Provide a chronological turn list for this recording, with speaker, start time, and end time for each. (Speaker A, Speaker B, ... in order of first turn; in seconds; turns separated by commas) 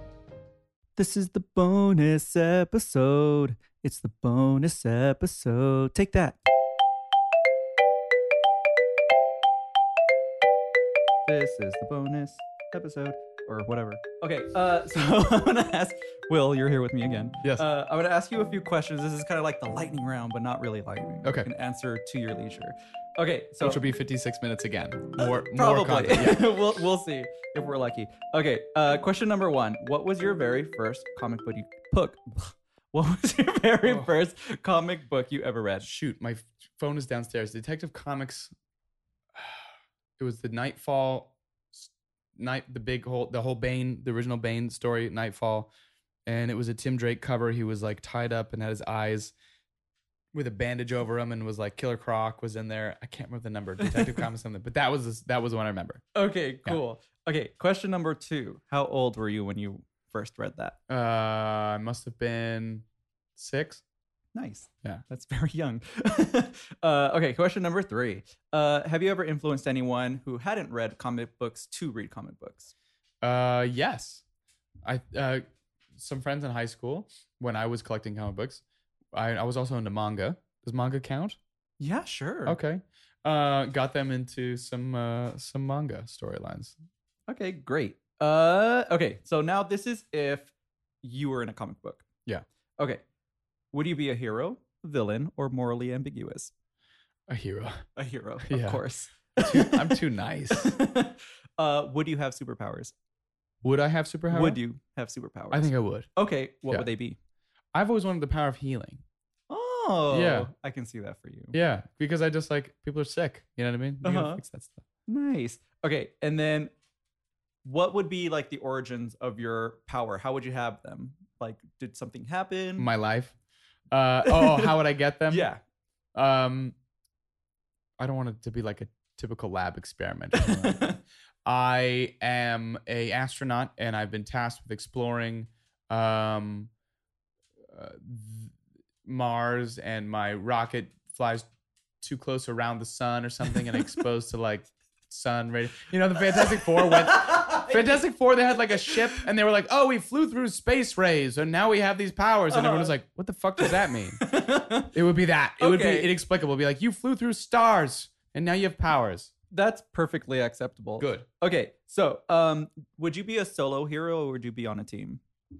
Speaker A: 1.0-6.4, Speaker A: 11.3-23.8, Speaker B: 21.2-21.5, Speaker B: 23.6-26.5, Speaker A: 25.2-35.9, Speaker B: 33.8-34.1, Speaker B: 35.8-38.5, Speaker B: 39.4-39.6, Speaker B: 40.2-45.7, Speaker B: 46.2-49.3, Speaker B: 50.3-56.0, Speaker A: 56.1-60.8, Speaker B: 60.9-62.8, Speaker B: 63.4-63.8, Speaker A: 64.3-72.7, Speaker B: 73.2-74.2, Speaker B: 74.8-75.4, Speaker B: 75.9-78.6, Speaker B: 79.1-81.4, Speaker A: 81.8-82.6, Speaker B: 82.5-86.8, Speaker A: 87.3-90.5, Speaker A: 91.0-92.0, Speaker A: 92.8-93.0, Speaker A: 93.7-96.5, Speaker B: 97.3-97.8, Speaker A: 98.0-102.9, Speaker B: 98.4-98.8, Speaker B: 99.3-100.8, Speaker B: 103.6-104.6, Speaker A: 104.3-107.2, Speaker B: 105.5-106.1, Speaker B: 107.7-109.0, Speaker A: 109.5-111.5, Speaker B: 110.1-110.5, Speaker B: 111.5-114.8, Speaker A: 114.0-114.4, Speaker A: 115.1-116.7, Speaker A: 117.6-122.9, Speaker B: 122.8-123.3, Speaker B: 123.9-125.5, Speaker A: 124.2-124.8, Speaker A: 125.3-125.6, Speaker B: 126.1-126.7, Speaker B: 128.0-136.7, Speaker A: 130.4-131.0, Speaker B: 137.7-138.5, Speaker B: 139.0-141.4, Speaker B: 142.0-154.3, Speaker A: 146.5-148.0, Speaker A: 152.5-152.9, Speaker A: 153.6-154.9, Speaker B: 154.8-159.3, Speaker A: 155.6-156.2, Speaker A: 159.5-165.2, Speaker B: 161.0-161.3